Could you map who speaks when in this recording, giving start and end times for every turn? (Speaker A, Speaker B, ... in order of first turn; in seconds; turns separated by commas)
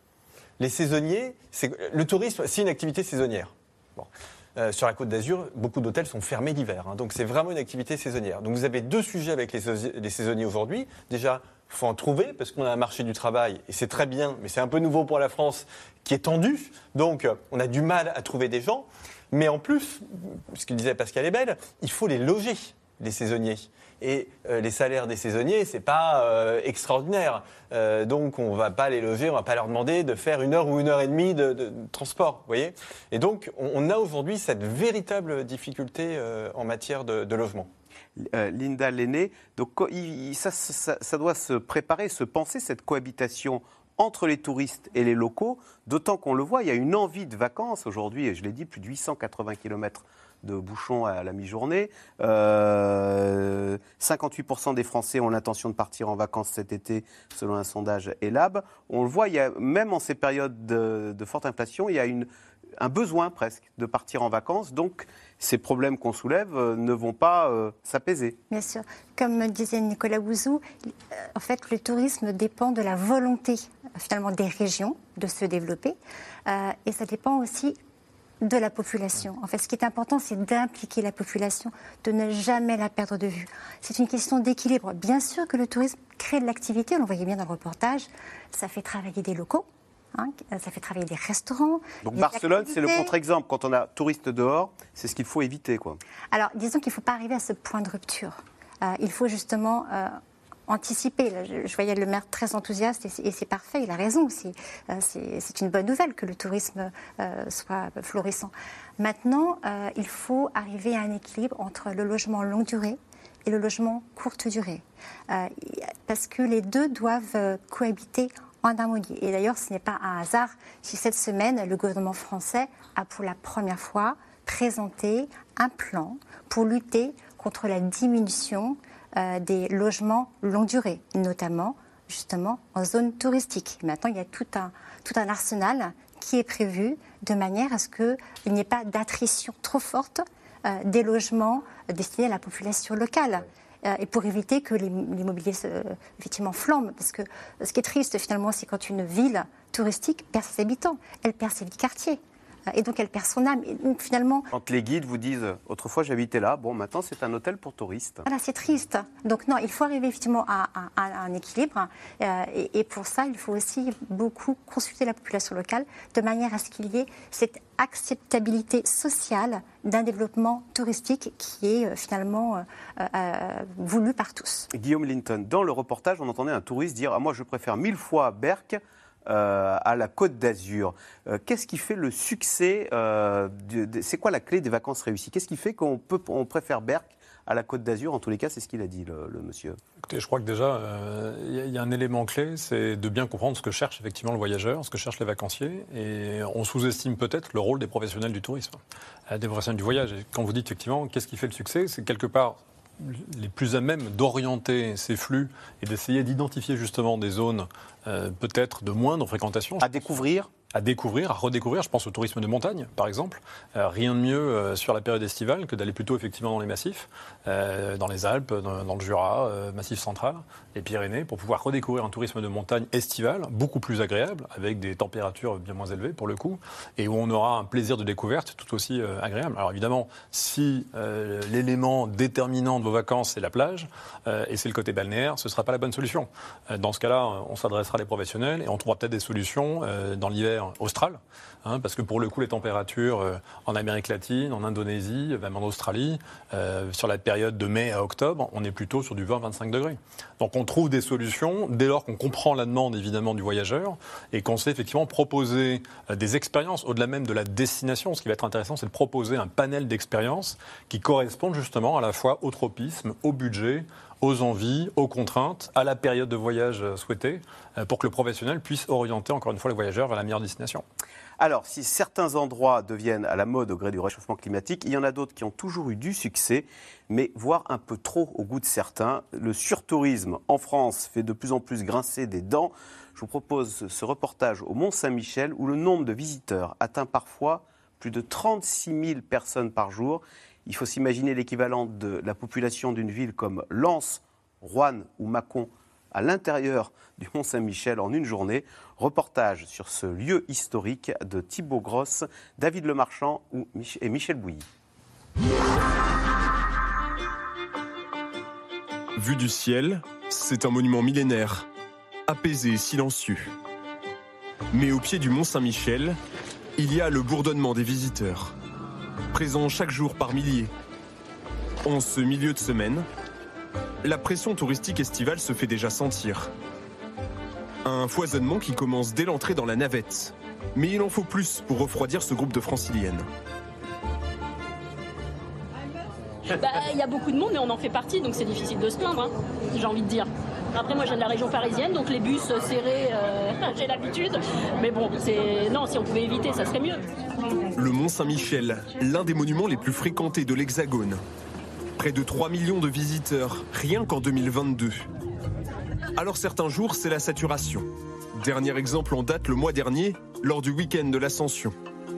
Speaker A: 0.6-37.7, Speaker B: 38.2-62.3, Speaker B: 62.8-68.3, Speaker C: 68.5-70.6, Speaker C: 71.3-77.8, Speaker C: 78.4-93.1, Speaker B: 92.0-96.0, Speaker C: 96.3-152.2, Speaker C: 152.7-154.5, Speaker B: 154.5-158.2, Speaker C: 158.2-174.7, Speaker B: 174.7-189.8, Speaker D: 190.1-210.1, Speaker B: 209.8-210.5, Speaker D: 210.7-270.8, Speaker B: 271.4-304.6, Speaker E: 309.1-311.7, Speaker E: 312.3-313.5, Speaker E: 314.7-316.2, Speaker E: 316.8-318.5, Speaker E: 319.3-320.7, Speaker E: 321.8-323.1, Speaker E: 324.0-326.5, Speaker E: 327.8-333.3, Speaker F: 336.5-347.1, Speaker E: 347.7-351.2, Speaker E: 352.0-355.1, Speaker E: 356.1-361.7